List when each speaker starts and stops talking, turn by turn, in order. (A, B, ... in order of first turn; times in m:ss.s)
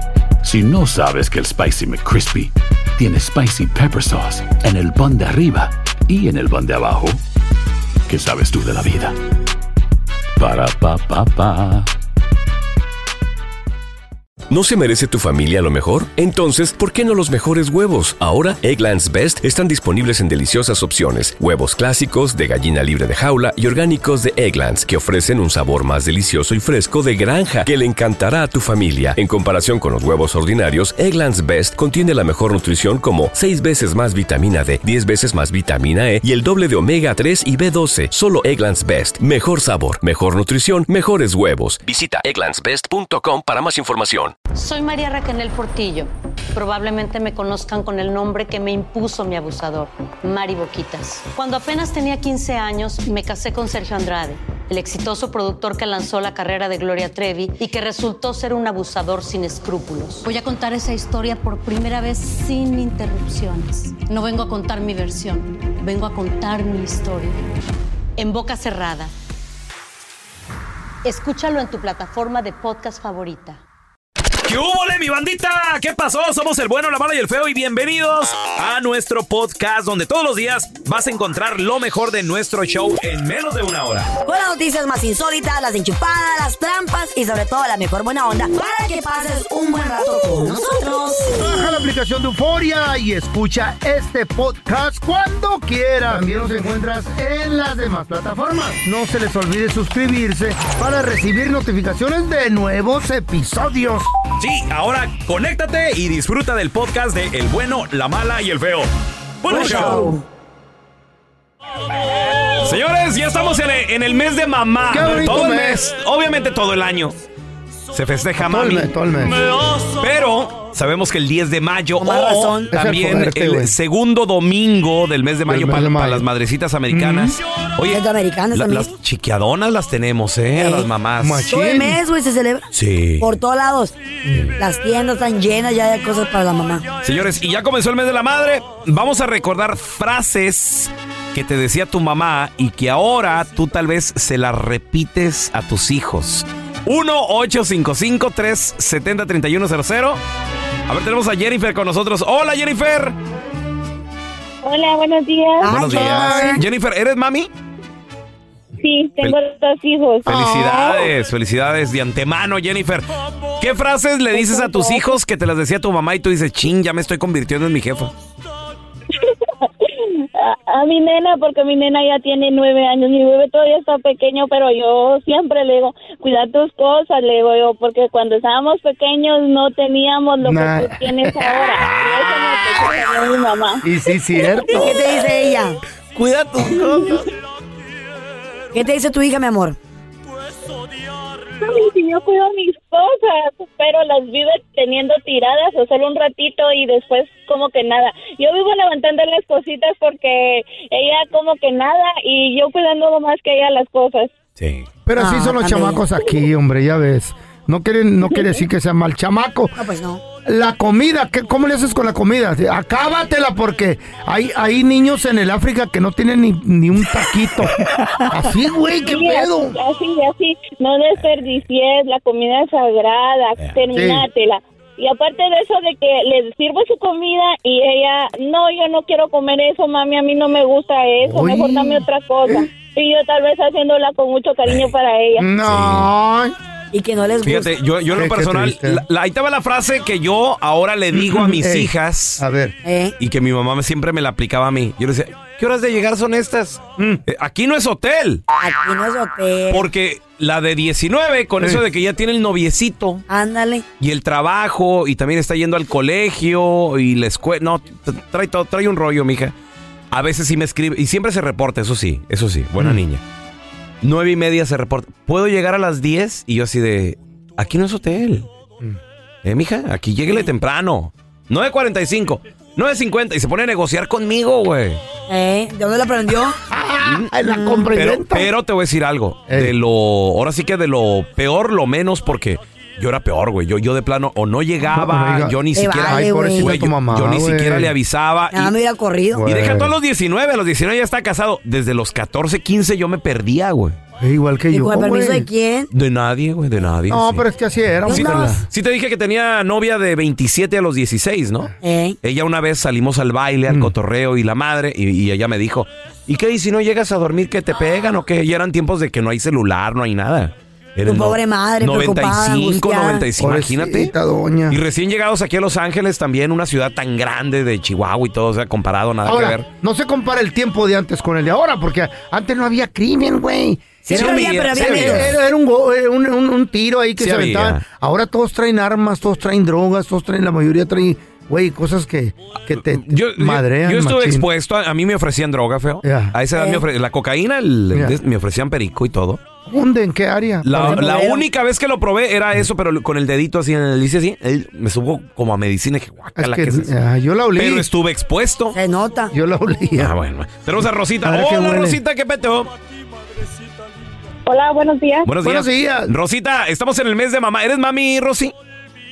0:00.4-0:07.2 A
0:08.1-0:09.1 A
0:10.4-0:11.9 A
0:14.5-0:44.4 B
0:44.5-1:07.4 C
1:08.2-1:09.1 C
1:11.0-1:13.6 C
1:14.4-1:24.1 D
1:24.2-1:31.6 E
1:31.3-1:44.1 F
1:44.4-1:48.9 D
1:49.4-1:50.1 D
1:49.5-1:50.2 E
1:52.6-1:57.2 D
1:54.9-1:55.8 F
1:57.9-1:58.9 D
1:58.4-1:59.4 F
2:00.0-2:11.5 D
2:02.0-2:02.7 E
2:02.7-2:03.7 F
2:05.5-2:06.2 F
2:06.9-2:07.4 F
2:07.9-2:08.9 E
2:10.5-2:10.9 E
2:11.2-2:12.0 F
2:11.5-2:12.7 E
2:12.7-2:13.3 D
2:13.2-2:13.9 E
2:14.3-2:14.5 F
2:14.6-2:16.8 E
2:17.0-2:30.2 D
2:30.9-2:33.2 D
2:34.6-2:35.7 G
2:35.6-2:36.6 E
2:35.7-2:37.5 D
2:35.8-2:36.5 F
2:38.8-2:41.0 G
2:40.2-2:43.1 D
2:43.6-2:48.1 D
2:44.3-2:45.1 G
2:49.1-3:03.8 G
3:00.4-3:01.5 F
3:01.8-3:03.0 D
3:03.8-3:05.0 F
3:04.4-3:04.7 G
3:04.6-3:05.8 E
3:06.1-3:07.3 D
3:08.7-3:09.8 E
3:11.6-3:24.3 G
3:24.6-3:24.8 D
3:25.0-3:29.8 F
3:25.2-3:26.1 E
3:29.7-3:30.2 E
3:30.4-3:37.8 F
3:38.3-3:39.8 F
3:39.0-3:55.5 G
3:43.9-3:44.2 F
3:51.2-3:52.5 F
3:55.4-3:56.5 F
3:55.6-3:56.1 D
3:56.9-3:57.7 E
3:57.4-4:02.4 D
3:58.1-3:59.0 F
4:01.1-4:02.8 F
4:02.8-4:03.1 E
4:03.2-4:08.4 D
4:08.6-4:09.9 E
4:09.7-4:13.2 D
4:13.3-4:13.8 E
4:14.0-4:19.5 D
4:20.1-4:23.2 D
4:24.0-4:28.5 D
4:29.4-4:35.0 D
4:35.3-4:36.6 E
4:36.7-4:38.5 F
4:37.0-4:37.3 D
4:37.4-4:37.9 E
4:37.9-4:48.7 D
4:39.5-4:39.7 F
4:44.9-4:47.9 F
4:45.7-4:46.8 E
4:48.5-4:49.5 E
4:49.3-4:49.9 F
4:49.4-4:54.0 D
4:54.2-4:55.5 F
4:54.7-4:55.9 E
4:55.9-4:57.4 D
4:57.1-4:58.6 F
4:58.0-4:58.6 E
4:58.7-5:01.7 D
5:01.8-5:02.2 E
5:02.2-5:14.1 D
5:03.7-5:03.9 F
5:11.0-5:13.2 E
5:13.4-5:14.8 F
5:14.7-5:19.6 D
5:19.2-5:34.4 F
5:24.1-5:25.3 E
5:24.1-5:25.4 D
5:27.2-5:27.8 D
5:32.7-5:39.4 D
5:36.0-5:36.3 F
5:36.5-5:36.8 E
5:39.6-5:41.2 F
5:40.6-5:46.9 D
5:40.7-5:41.4 E
5:46.4-5:47.8 F
5:47.6-5:48.8 D
5:48.7-5:49.3 E
5:49.3-5:50.1 F
5:50.0-5:52.7 D
5:51.2-5:52.0 F
5:54.4-5:55.3 G
5:55.2-5:58.5 D
5:55.4-5:56.1 F